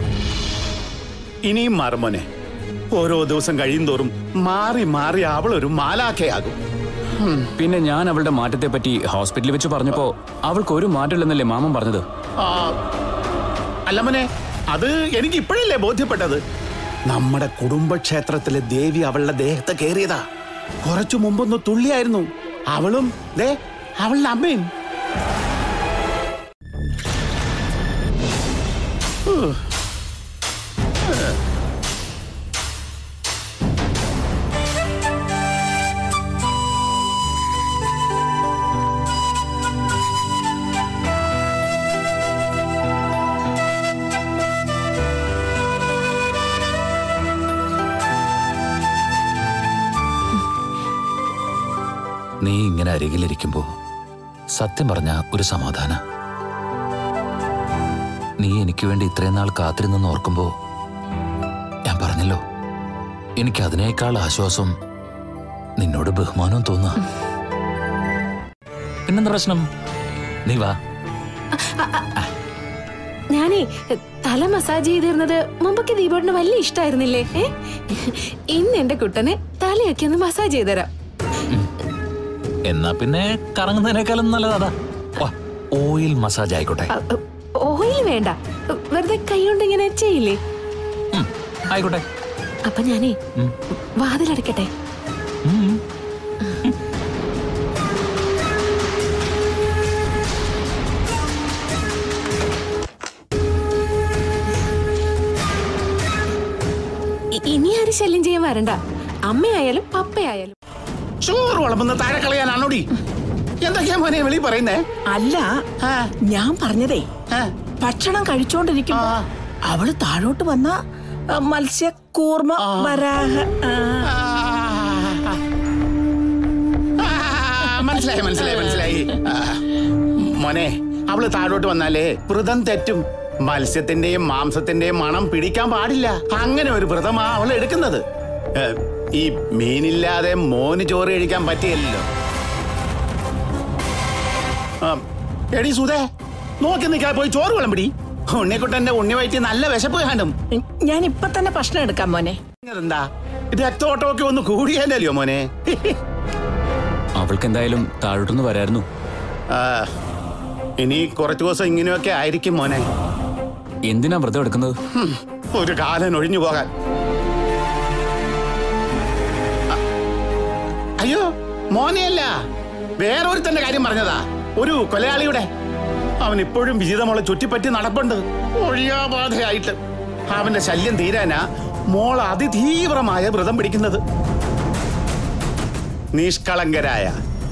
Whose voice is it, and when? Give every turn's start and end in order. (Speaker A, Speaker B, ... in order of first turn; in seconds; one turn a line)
Speaker A: 1.5-2.2
Speaker A: 3.0-6.5
Speaker A: 7.2-7.5
Speaker B: 7.6-12.0
Speaker A: 12.4-12.7
Speaker A: 13.9-16.4
Speaker A: 17.1-20.2
Speaker A: 20.9-24.7
Speaker A: 29.3-29.6
Speaker A: 31.1-31.4
Speaker C: 52.4-53.6
Speaker C: 54.5-56.0
Speaker C: 58.4-60.5
Speaker C: 61.9-62.4
Speaker C: 63.4-64.7
Speaker C: 65.8-67.0
Speaker C: 69.1-69.6
Speaker C: 70.5-70.7
Speaker D: 71.6-72.1
Speaker D: 73.3-80.9
Speaker C: 82.7-86.9
Speaker D: 86.9-90.4
Speaker C: 91.1-92.0
Speaker D: 92.7-93.2
Speaker D: 94.0-94.7
Speaker C: 95.5-95.8
Speaker D: 107.4-110.5
Speaker A: 111.2-112.9
Speaker A: 113.6-114.8
Speaker E: 115.1-115.5
Speaker A: 115.8-116.1
Speaker E: 116.3-117.0
Speaker E: 117.8-119.1
Speaker A: 118.9-119.2
Speaker E: 119.7-120.7
Speaker E: 121.4-124.0
Speaker A: 122.6-123.0
Speaker A: 124.0-125.4
Speaker A: 127.0-129.6
Speaker A: 130.2-138.0
Speaker A: 138.6-142.1
Speaker A: 145.5-146.1
Speaker A: 146.6-150.3
Speaker E: 150.6-152.4
Speaker A: 152.6-156.0
Speaker B: 157.2-158.8
Speaker A: 159.5-159.9
Speaker A: 160.8-162.8
Speaker B: 163.9-164.7
Speaker A: 164.9-166.7
Speaker A: 171.0-172.3
Speaker A: 173.0-175.5
Speaker A: 176.2-179.8
Speaker A: 180.3-184.0
Speaker A: 186.2-187.2